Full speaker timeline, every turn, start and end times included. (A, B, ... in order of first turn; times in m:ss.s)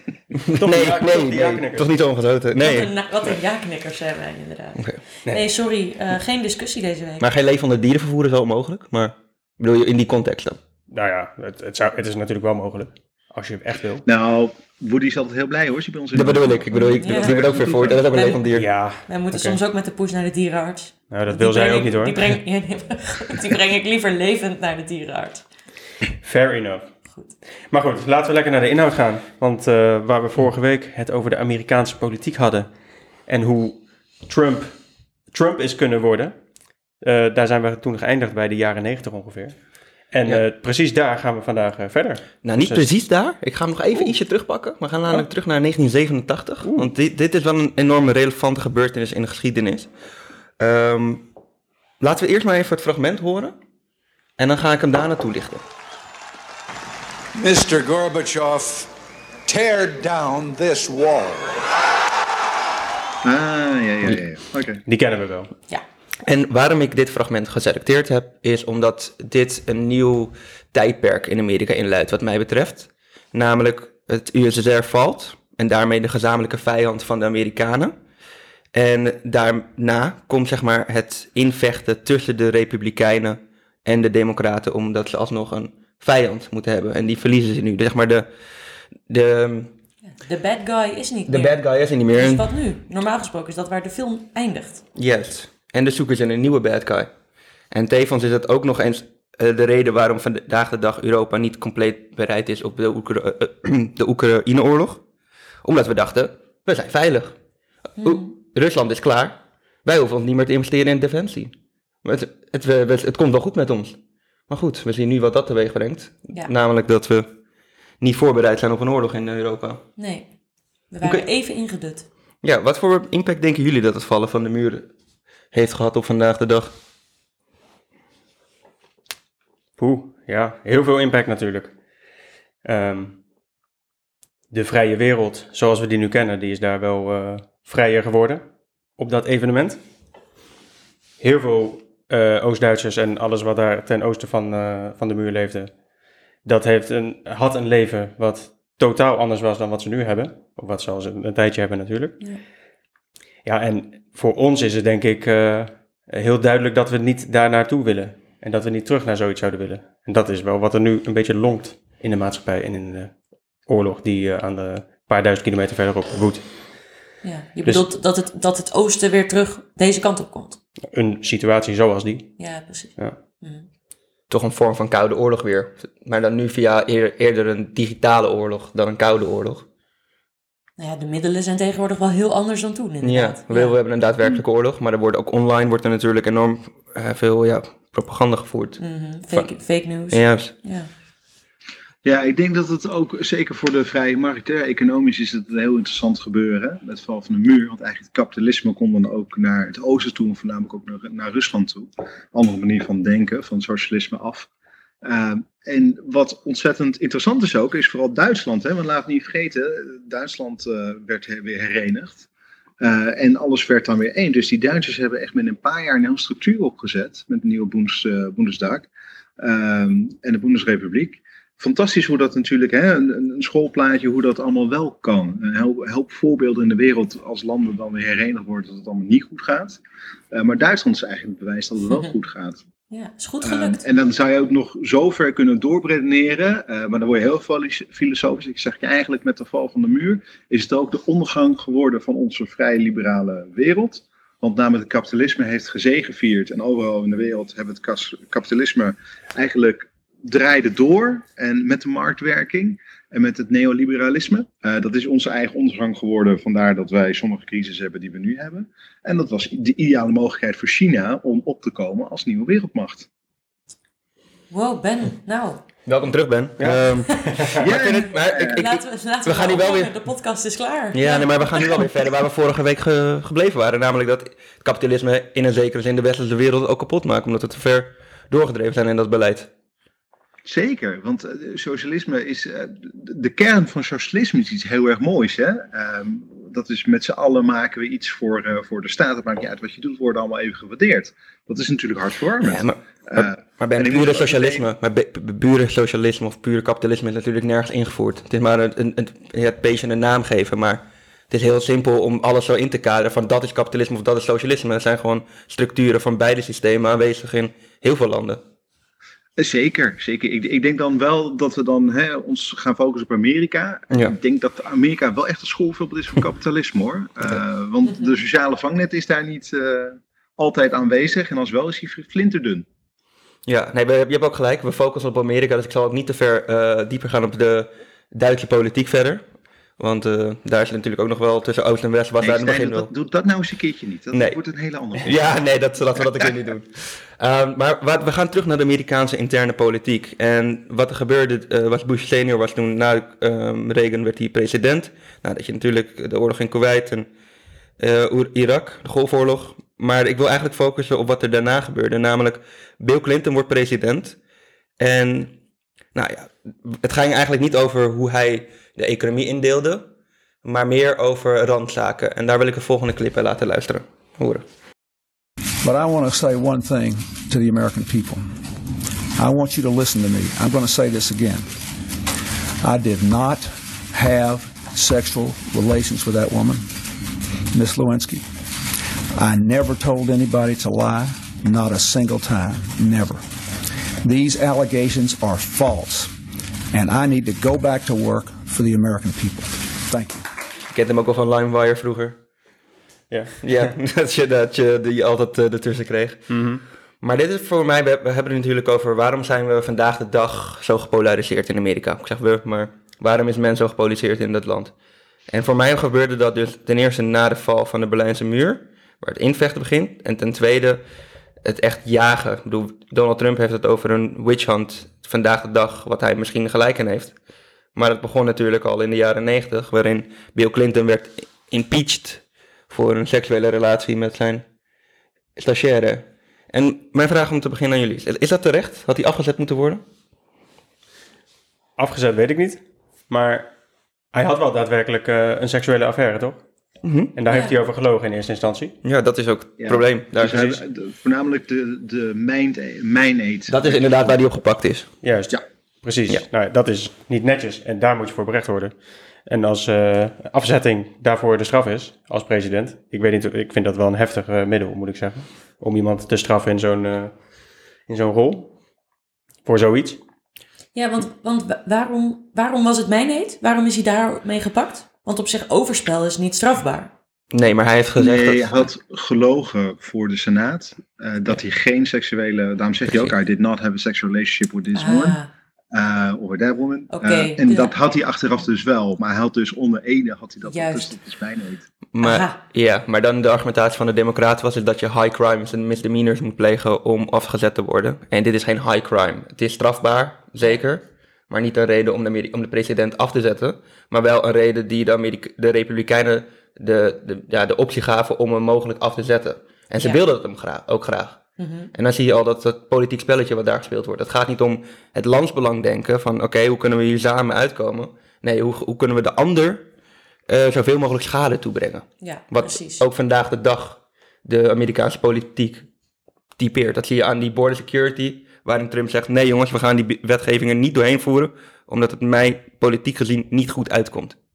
0:00.5-0:01.9 A
0:00.5-0:02.9 B
0:02.6-0:07.3 C
0:07.2-0:10.6 B
0:10.9-0:14.0 A
0:14.0-0:18.0 D
0:16.1-0:18.7 B
0:17.0-0:18.4 C
0:18.5-0:19.6 A
0:19.0-0:25.4 C
0:21.1-0:22.2 A
0:26.2-0:26.9 A
0:27.7-0:32.7 A
0:33.2-0:34.8 A
0:35.3-0:36.4 A
0:37.0-0:42.9 A
0:42.4-0:49.9 B
0:46.6-0:46.9 A
0:50.6-0:51.2 B
0:52.0-0:53.6 B
0:54.4-0:55.6 B
0:57.3-0:58.9 E
0:59.4-1:01.6 E
1:03.2-1:04.8 D
1:04.9-1:05.5 A
1:06.2-1:18.0 B
1:18.7-1:28.3 B
1:29.1-1:29.7 B
1:30.1-1:34.8 C
1:31.3-1:32.5 B
1:35.0-1:37.1 B
1:37.7-1:45.0 B
1:45.6-1:47.4 B
1:48.0-1:48.3 C
1:48.0-1:54.0 B
1:54.5-1:57.3 B
1:58.0-1:59.8 B
2:00.0-2:00.3 C
2:00.9-2:02.0 C
2:02.4-2:04.9 B
2:05.5-2:06.7 B
2:09.8-2:11.7 A
2:12.6-2:13.2 A
2:14.5-2:18.4 A
2:19.0-2:19.8 A
2:21.2-2:25.7 A
2:26.4-2:32.3 A
2:33.4-2:46.5 A
2:47.2-2:50.6 C
2:50.9-2:52.3 A
2:52.4-2:53.6 C
2:54.3-2:59.6 B
3:00.8-3:03.8 C
3:03.0-3:09.5 B
3:08.8-3:10.9 C
3:10.1-3:10.5 B
3:12.0-3:24.5 D
3:25.0-3:32.3 D
3:32.8-3:38.9 D
3:39.4-3:49.8 D
3:50.3-3:52.6 D
3:52.9-3:53.8 C
3:53.4-4:23.1 D
4:24.5-4:25.6 C
4:25.8-4:29.9 B
4:26.6-4:27.5 A
4:27.6-4:28.6 D
4:28.5-4:31.9 C
4:30.9-4:39.5 B
4:40.4-4:54.7 D
4:52.4-5:08.4 B
5:09.4-5:22.6 D
5:13.9-5:14.2 B
5:23.4-5:29.2 B
5:29.8-5:32.9 B
5:32.2-5:35.2 D
5:34.1-5:34.4 B
5:35.0-5:47.1 B
5:47.8-5:54.2 B
5:54.8-5:55.3 B
5:55.9-5:59.9 B
6:00.4-6:04.4 B
6:05.6-6:08.4 F
6:09.1-6:11.6 F
6:12.6-6:16.8 F
6:17.5-6:18.3 F
6:19.1-6:23.2 F
6:24.0-6:26.1 F
6:26.7-6:30.2 F
6:30.7-6:32.2 B
6:33.1-6:33.4 A
6:33.4-6:36.4 B
6:36.3-6:36.6 A
6:37.0-6:44.7 B
6:45.3-6:50.8 B
6:51.4-6:57.2 B
6:57.8-7:04.4 B
7:05.4-7:09.8 B
7:11.8-7:13.5 A
7:14.1-7:16.4 A
7:16.8-7:17.1 B
7:17.2-7:18.7 A
7:18.8-7:20.6 B
7:19.6-7:24.2 D
7:23.5-7:24.9 B
7:25.0-7:28.7 A
7:29.2-7:37.2 A
7:37.9-7:38.5 A
7:39.4-7:40.0 A
7:40.7-7:46.9 C
7:47.3-7:48.6 B
7:48.0-7:55.2 D
7:52.9-7:53.1 B
7:54.7-7:55.3 C
7:55.7-8:01.6 D
7:56.9-7:57.8 C
8:00.4-8:01.0 C
8:01.9-8:21.2 B
8:02.0-8:02.4 C
8:21.4-8:21.7 C
8:21.7-8:29.6 B
8:30.3-8:35.6 B
8:32.0-8:32.8 C
8:36.4-8:44.2 B